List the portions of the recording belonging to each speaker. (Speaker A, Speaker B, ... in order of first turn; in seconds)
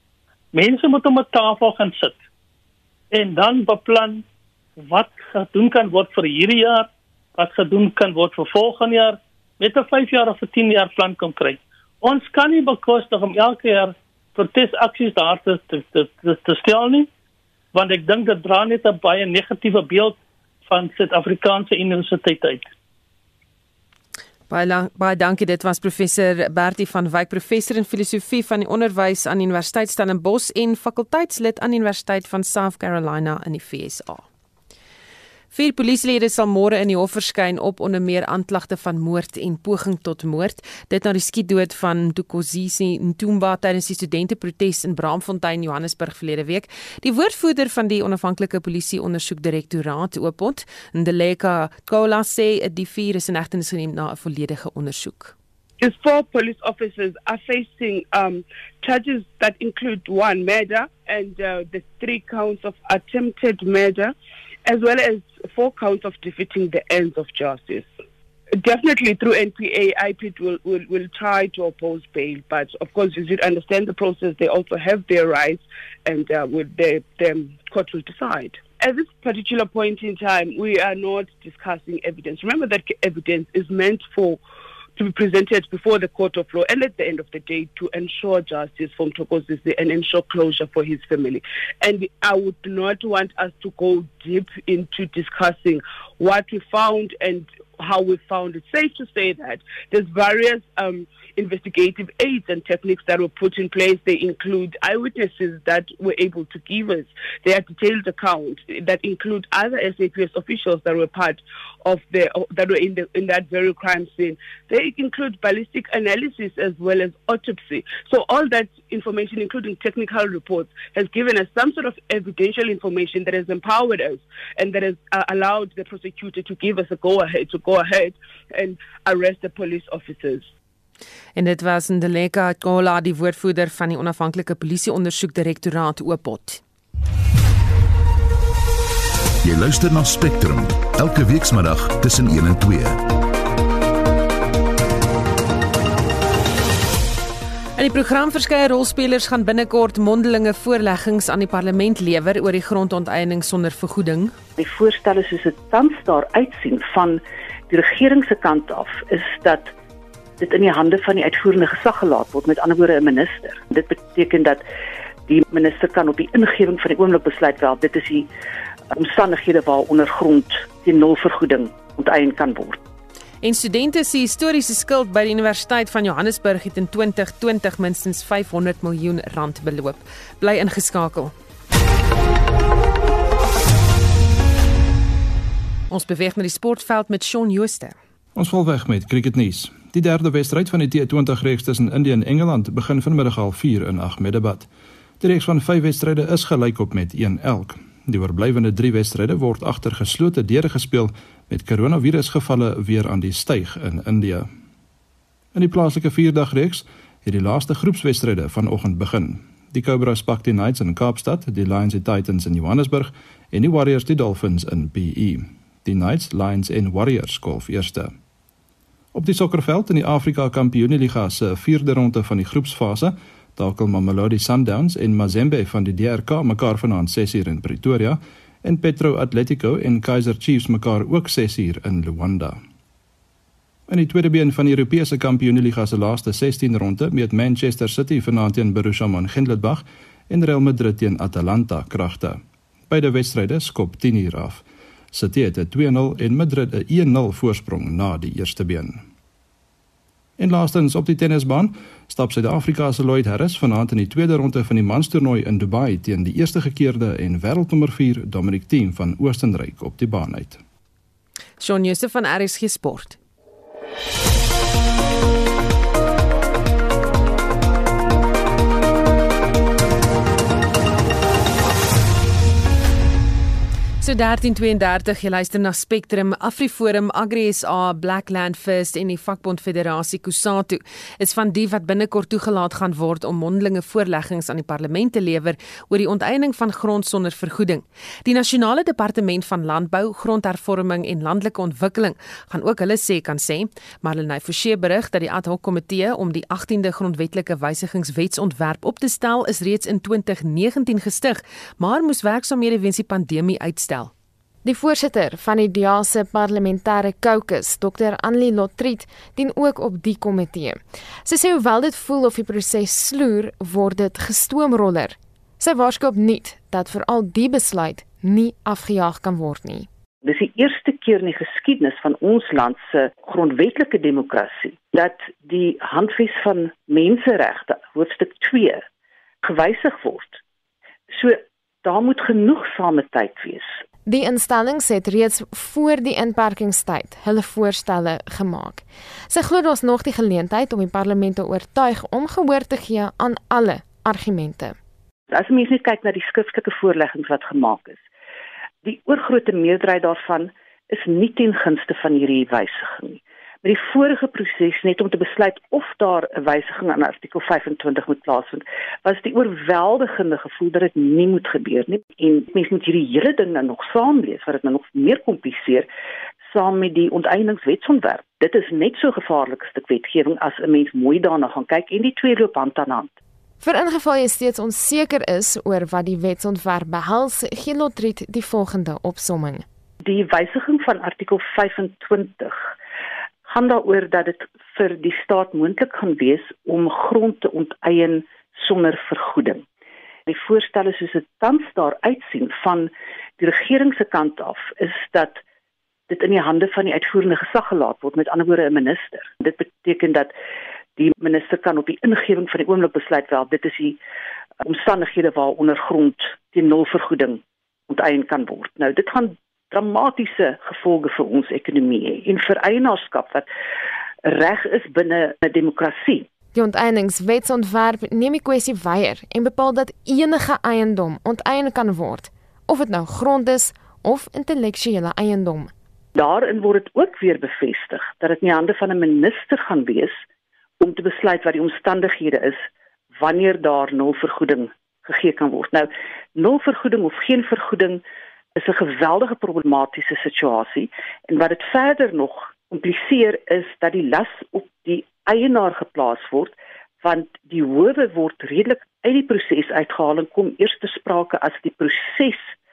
Speaker A: 0.5-2.2, 3.1-4.2, 4.8-17.1, 17.7-20.2, 20.7-22.7
Speaker B: 24.5-34.3, 35.5-55.3, 131.4-136.6, 147.8-154.4, 173.4-181.3, 185.9-188.0, 261.6-263.2, 274.0-304.1
Speaker C: 55.8-64.1, 64.7-67.9, 68.6-84.4, 85.0-130.5
Speaker D: 139.4-143.0
Speaker E: 154.6-159.7, 160.4-164.6, 165.3-168.3, 168.9-172.8, 320.2-328.8, 329.4-330.4, 331.1-333.8, 345.3-348.0, 348.8-365.9, 366.5-373.1, 380.0-382.7, 383.5-389.6, 390.3-395.4, 396.1-400.3, 401.0-404.0, 404.6-413.5, 414.2-416.3, 426.2-430.2, 430.8-432.7, 433.2-438.0, 438.6-452.5
Speaker F: 188.4-194.7, 195.2-204.5, 205.5-218.1, 219.1-232.6, 233.9-249.0, 250.4-260.6
Speaker G: 304.6-319.9, 334.1-344.8, 373.6-379.6, 416.5-425.7